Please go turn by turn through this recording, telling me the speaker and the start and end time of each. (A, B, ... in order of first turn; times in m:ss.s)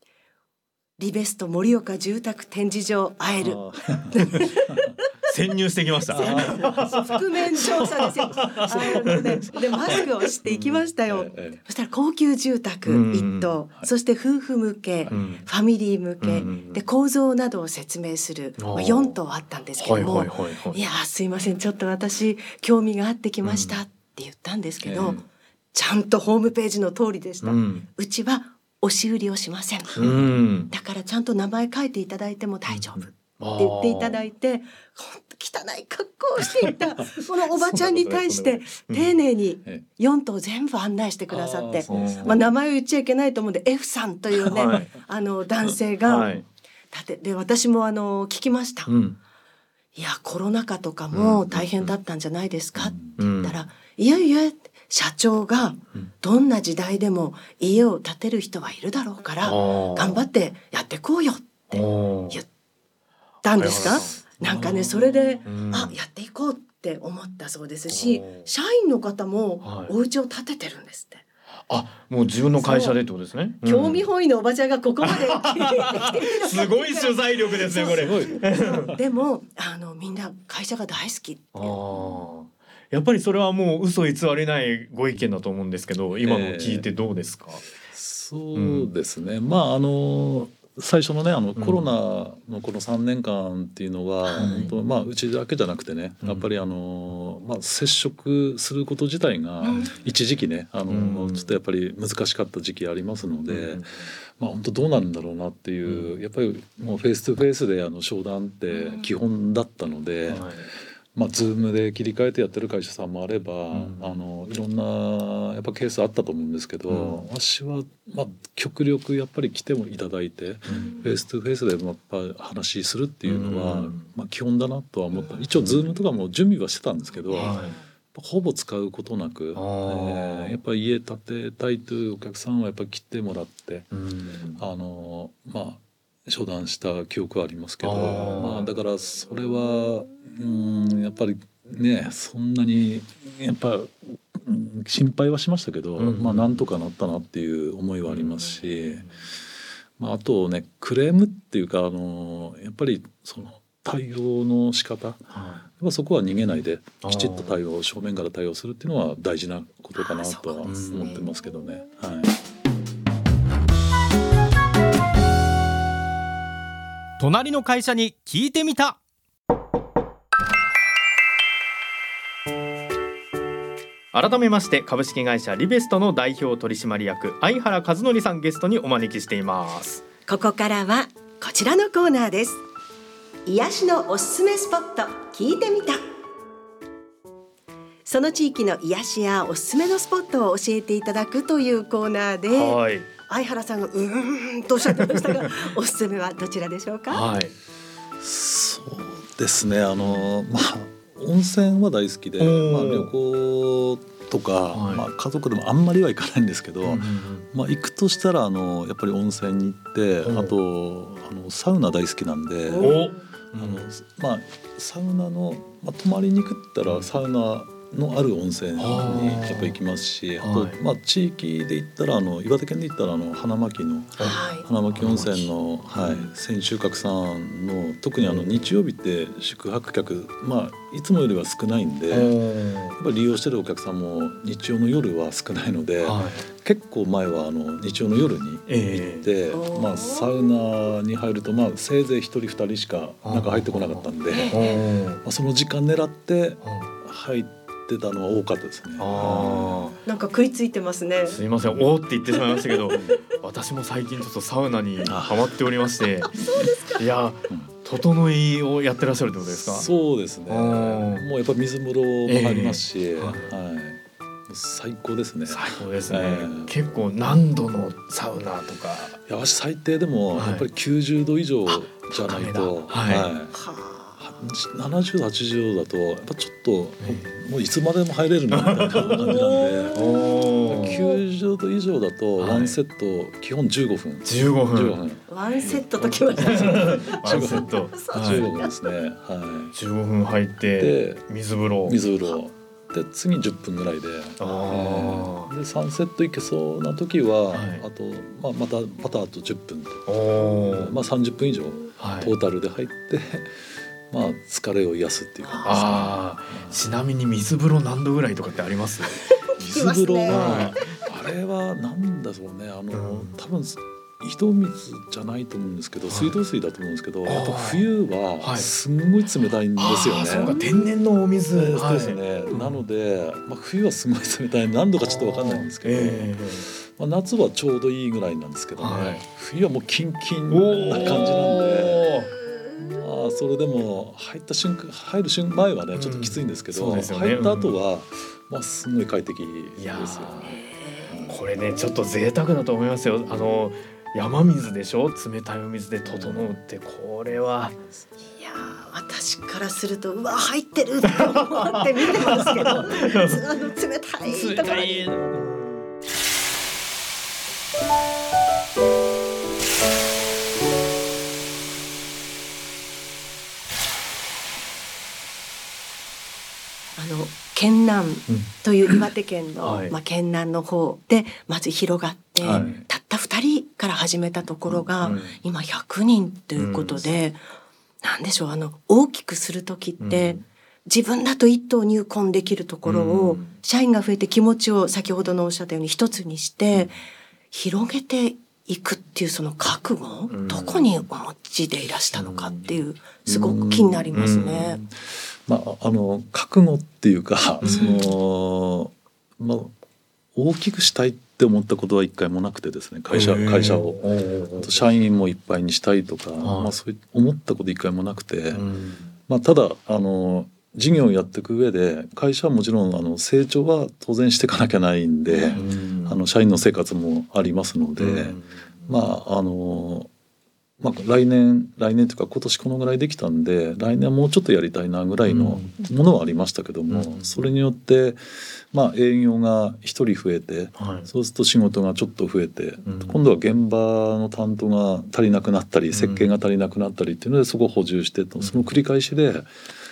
0:01.0-0:04.8 A
0:03.4-0:04.9 B
0:05.3-0:07.1 C
0:06.1-0:09.2 B
0:06.1-0:30.0 A
0:08.3-0:09.6 C
0:10.5-0:10.8 C
0:10.5-0:11.6 B
0:12.8-0:13.5 C
0:15.1-0:15.5 C
0:16.2-0:16.8 C
0:18.6-0:19.2 C
0:19.8-0:20.8 C
0:23.4-0:23.8 C
0:24.8-0:25.2 B
0:27.4-0:27.8 C
0:30.0-0:30.4 B
0:30.0-0:30.7 C
0:30.7-0:46.3 A
0:32.7-0:34.2 C
0:36.4-0:36.7 B
0:37.6-0:39.1 C
0:41.3-0:42.5 B
0:41.9-0:42.4 C
0:44.4-0:44.8 B
0:44.5-0:44.9 C
0:46.0-0:46.4 C
0:46.9-0:48.9 A
0:48.9-0:49.2 C
0:49.9-1:02.5 A
0:51.1-0:51.9 C
0:52.8-0:53.2 B
0:53.2-0:53.6 C
0:59.4-1:00.2 C
1:01.7-1:02.4 C
1:03.4-1:11.2 A
1:03.6-1:06.0 C
1:07.9-1:08.5 C
1:09.6-1:09.9 C
1:11.7-1:14.0 C
1:12.6-1:13.0 A
1:13.6-1:21.8 A
1:15.0-1:18.9 C
1:17.8-1:19.0 B
1:21.5-1:27.6 C
1:26.2-1:26.8 B
1:27.9-1:50.6 B
1:28.5-1:28.9 C
1:31.6-1:31.9 C
1:34.2-1:34.7 A
1:34.4-1:34.7 C
1:36.2-1:36.5 C
1:39.6-1:39.9 A
1:40.9-1:41.5 C
1:43.5-1:44.1 C
1:45.8-1:46.2 C
1:48.7-1:49.0 A
1:50.3-1:50.7 C
1:51.1-2:13.9 B
1:53.7-1:54.2 C
1:56.9-1:57.2 C
2:00.6-2:01.0 C
2:00.7-2:01.1 A
2:03.2-2:04.1 C
2:07.2-2:07.8 A
2:07.4-2:07.8 C
2:09.5-2:10.6 C
2:13.9-2:14.6 C
2:14.6-2:29.1 B
2:17.8-2:18.7 C
2:26.0-2:26.6 C
2:28.0-2:29.1 C
2:30.0-2:35.2 B
2:35.3-2:35.6 C
2:35.8-2:42.3 B
2:37.0-2:37.5 C
2:39.9-2:41.3 A
2:40.6-2:41.1 C
2:47.2-2:49.0 C
2:54.1-3:00.0 C
3:00.2-3:02.6 A
3:03.4-3:06.0 A
3:08.0-3:17.2 A
3:12.5-3:13.1 C
3:15.0-3:15.5 C
3:17.1-3:17.5 C
3:18.2-3:33.0 B
3:22.4-3:23.1 C
3:24.7-3:25.0 C
3:26.8-3:27.5 C
3:30.2-3:30.5 C
3:32.7-3:33.3 A
3:32.8-3:33.8 C
3:33.6-3:52.3 B
3:36.8-3:37.1 C
3:38.8-3:39.7 C
3:40.4-3:40.8 C
3:44.2-3:44.7 A
3:44.9-3:46.3 C
3:48.2-3:48.5 C
3:52.1-3:53.0 C
3:52.9-4:04.6 B
3:56.0-3:56.5 C
3:58.7-3:59.3 C
3:59.5-4:00.3 A
4:03.2-4:05.2 C
4:04.3-4:04.8 A
4:05.2-4:10.0 B
4:06.6-4:06.9 C
4:09.0-4:09.9 C
4:10.0-4:11.4 A
4:11.2-4:16.3 C
4:12.5-4:13.0 A
4:12.9-4:13.2 B
4:15.0-4:15.4 B
4:16.5-4:17.0 A
4:17.0-4:19.9 C
4:19.5-4:26.7 B
4:20.5-4:21.3 C
4:22.2-4:23.5 C
4:25.5-4:29.2 C
4:29.3-4:33.6 B
4:30.4-4:30.6 C
4:31.7-4:33.3 C
4:33.5-4:34.2 A
4:34.2-4:40.0 B
4:37.0-4:37.4 C
4:38.5-4:39.2 C
4:39.1-4:40.3 A
4:39.9-4:41.0 C
4:40.7-4:49.7 B
4:40.9-4:41.2 A
4:42.4-4:42.8 C
4:44.2-4:45.0 C
4:45.3-4:48.7 A
4:45.6-4:45.8 C
4:46.4-4:48.5 C
4:49.7-4:52.0 C
4:50.8-4:51.2 B
4:51.8-5:06.8 B
4:54.4-4:55.5 C
4:57.5-4:57.8 C
5:00.1-5:00.9 C
5:02.0-5:02.3 C
5:05.4-5:06.0 A
5:05.6-5:09.2 C
5:09.3-5:10.7 A
5:09.6-5:20.6 B
5:10.3-5:10.8 C
5:12.9-5:13.4 C
5:16.1-5:16.4 C
5:17.2-5:17.8 C
5:18.4-5:18.7 C
5:19.8-5:22.8 C
5:20.3-5:20.6 A
5:21.5-5:32.1 B
5:25.0-5:26.7 C
5:28.8-5:29.2 C
5:30.5-5:32.3 C
5:32.8-5:41.3 B
5:35.9-5:37.7 C
5:39.8-5:40.3 C
5:40.4-5:41.3 A
5:41.3-5:47.7 C
5:46.0-5:46.5 B
5:48.4-5:55.1 A
5:51.0-5:53.4 C
5:54.2-5:55.9 C
6:07.0-6:17.4 A
6:08.3-6:08.5 C
6:09.6-6:09.9 C
6:12.4-6:12.8 B
6:12.4-6:12.7 C
6:14.7-6:15.2 B
6:15.0-6:15.4 C
6:16.6-6:17.1 C
6:18.0-6:26.9 A
6:20.0-6:20.4 C
6:22.8-6:23.6 C
6:27.5-6:34.8 A
6:30.3-6:30.9 C
6:32.1-6:32.8 C
6:33.2-6:34.2 B
6:34.1-6:34.8 C
6:34.9-6:39.7 B
6:37.6-6:37.9 C
6:37.6-6:38.0 A
6:40.3-6:44.0 B
6:43.1-6:44.8 C
6:44.6-6:48.6 B
6:46.4-6:46.7 C
6:48.5-6:49.1 C
6:49.3-7:00.1 B
6:55.3-6:55.6 A
6:55.5-6:56.2 C
6:58.0-6:59.0 C
7:00.8-7:19.5 B
7:05.2-7:05.8 C
7:06.9-7:07.5 C
7:10.8-7:11.1 C
7:12.8-7:13.2 C
7:15.9-7:16.3 C
7:18.4-7:18.7 C